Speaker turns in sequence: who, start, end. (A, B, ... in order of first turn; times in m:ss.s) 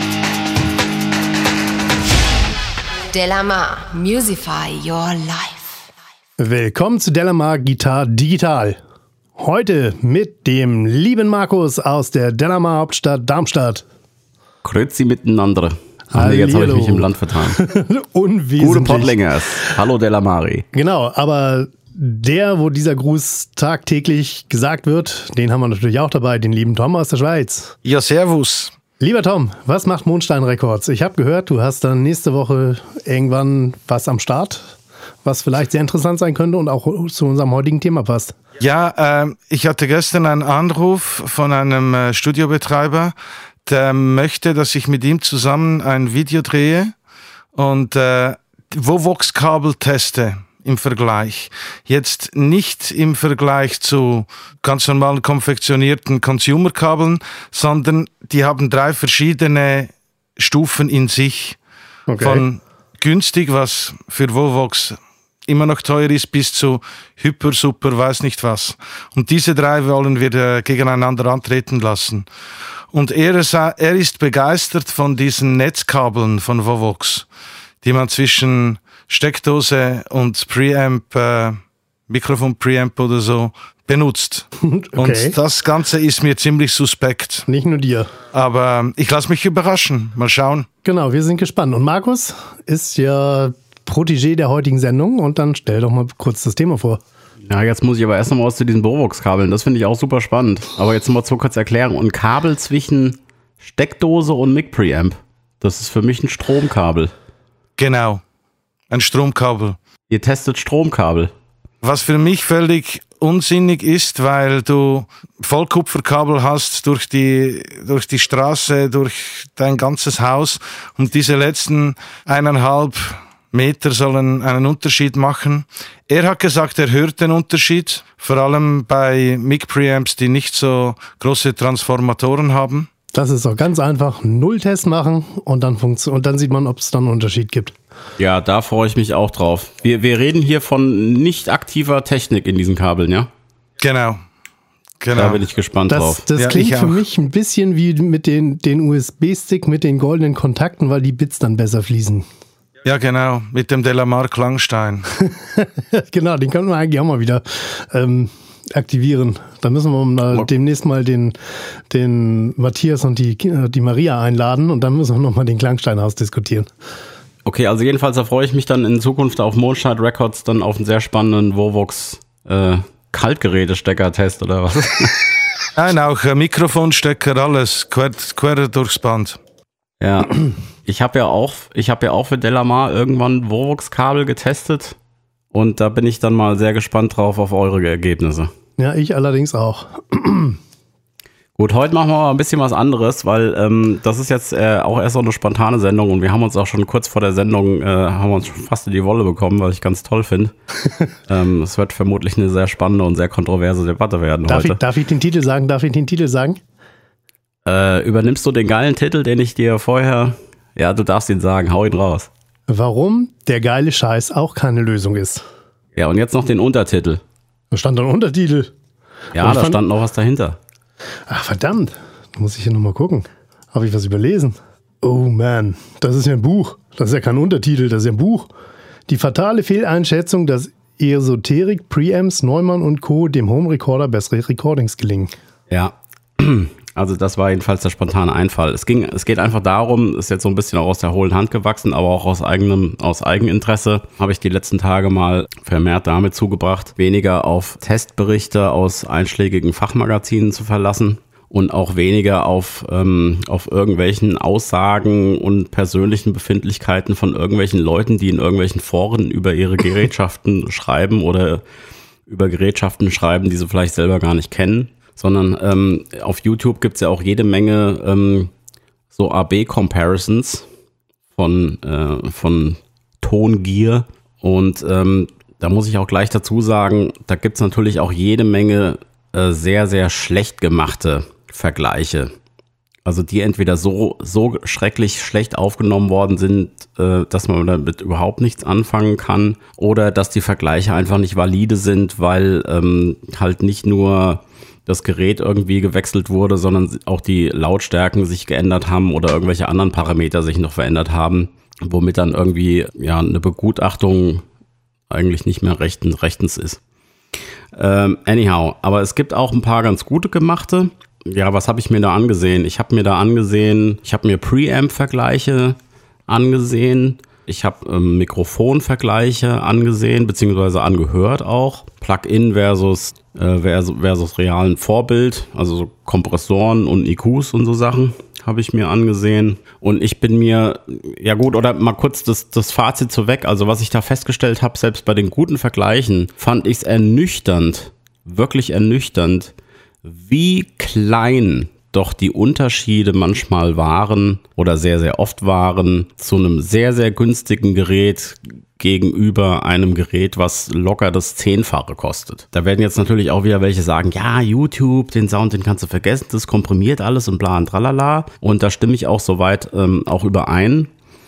0:03.1-0:06.0 A
0:06.4-0:08.8 B
0:09.4-0:13.8 B
0:14.6-0:17.6 C
0:16.1-0:19.2 B
0:18.6-0:20.7 C
0:20.7-0:27.8 B
0:27.8-0:28.8 D
0:29.0-0:38.4 B
0:38.6-0:43.1 D
0:43.6-0:46.9 D
0:47.6-1:01.6 D
1:02.1-1:02.4 B
1:02.2-1:05.0 D
1:05.5-1:12.3 D
1:12.9-1:17.3 D
1:17.8-1:27.5 D
1:24.6-1:25.4 B
1:27.5-1:28.1 B
1:28.3-1:30.7 D
1:30.8-1:37.0 B
1:37.4-1:47.1 C
1:47.8-1:48.2 D
1:48.9-1:49.8 D
1:50.1-1:51.3 C
1:51.8-2:12.9 D
2:13.1-2:17.8 B
2:18.2-2:23.3 C
2:23.8-2:24.2 D
2:25.0-2:25.4 D
2:25.1-2:26.3 C
2:25.9-2:32.3 B
2:26.4-2:27.0 D
2:32.8-2:35.2 D
2:35.6-2:41.4 B
2:41.9-2:46.7 B
2:47.4-2:55.2 C
2:55.8-2:59.4 D
3:00.0-3:05.0 C
3:05.5-3:08.5 C
3:08.8-3:10.6 B
3:11.6-3:20.5 C
3:21.3-3:24.8 C
3:24.5-3:26.6 B
3:27.6-3:32.3 C
3:32.7-3:35.4 B
3:36.0-3:37.2 C
3:37.7-3:38.7 B
3:39.3-3:40.6 C
3:39.4-3:39.8 B
3:41.3-3:48.5 B
3:49.1-3:55.3 B
3:55.7-4:21.6 C
4:22.3-4:28.5 C
4:29.1-4:30.7 C
4:31.4-4:42.3 C
4:43.0-5:04.4 C
5:05.1-5:06.8 C
5:07.8-5:39.5 C
5:40.0-6:00.9 C